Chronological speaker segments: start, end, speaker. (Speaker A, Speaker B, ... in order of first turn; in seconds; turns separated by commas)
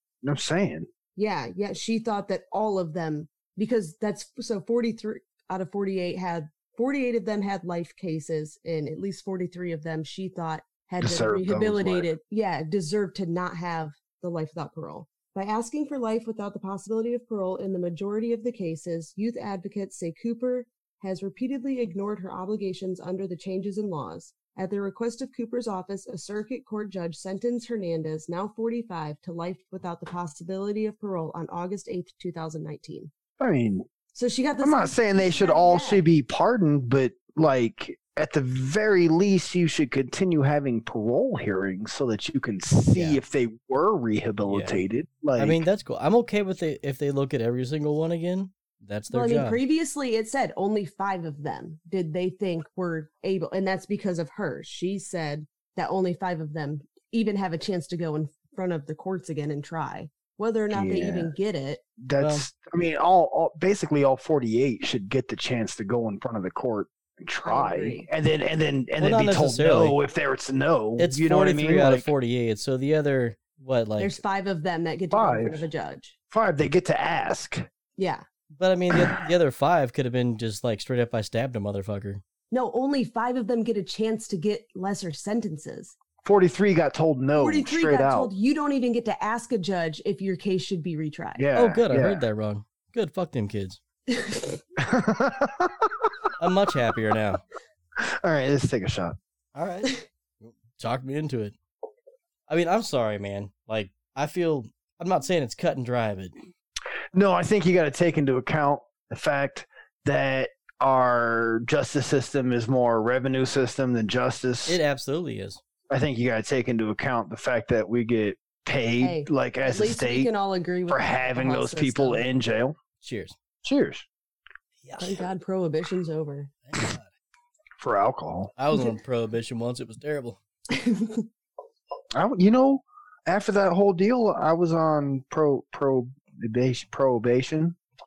Speaker A: 0.2-0.9, Speaker B: 1.2-33.1, Speaker A: 11.0-12.1, Speaker A: 33.4-33.9, Speaker B: 34.1-36.0, Speaker A: 34.6-45.6, Speaker C: 42.9-43.2, Speaker C: 44.5-44.8, Speaker C: 45.4-49.6, Speaker B: 49.1-61.8, Speaker A: 60.7-61.3, Speaker A: 62.0-72.1, Speaker C: 62.2-62.5, Speaker B: 67.5-68.1, Speaker C: 69.0-70.0, Speaker C: 71.0-74.2, Speaker B: 74.0-76.2, Speaker A: 75.1-75.7, Speaker A: 76.3-77.7, Speaker B: 78.0-78.2, Speaker C: 78.6-82.2, Speaker A: 78.9-79.2, Speaker B: 82.5-86.0, Speaker A: 86.2-88.3, Speaker B: 87.4-91.5, Speaker A: 91.4-92.2, Speaker C: 91.5-93.8, Speaker B: 94.1-94.6, Speaker A: 94.8-96.1, Speaker C: 96.4-97.4, Speaker A: 98.0-99.2, Speaker C: 99.5-101.5, Speaker C: 102.5-106.3, Speaker A: 107.1-114.8, Speaker C: 114.7-115.6, Speaker A: 115.9-120.3, Speaker B: 119.0-122.2, Speaker A: 120.9-122.8, Speaker C: 123.0-123.4, Speaker A: 123.6-124.1, Speaker C: 124.8-125.2, Speaker B: 125.0-126.5, Speaker C: 126.7-127.1, Speaker A: 127.8-128.5, Speaker C: 128.6-130.4, Speaker B: 130.7-131.2, Speaker A: 132.2-137.8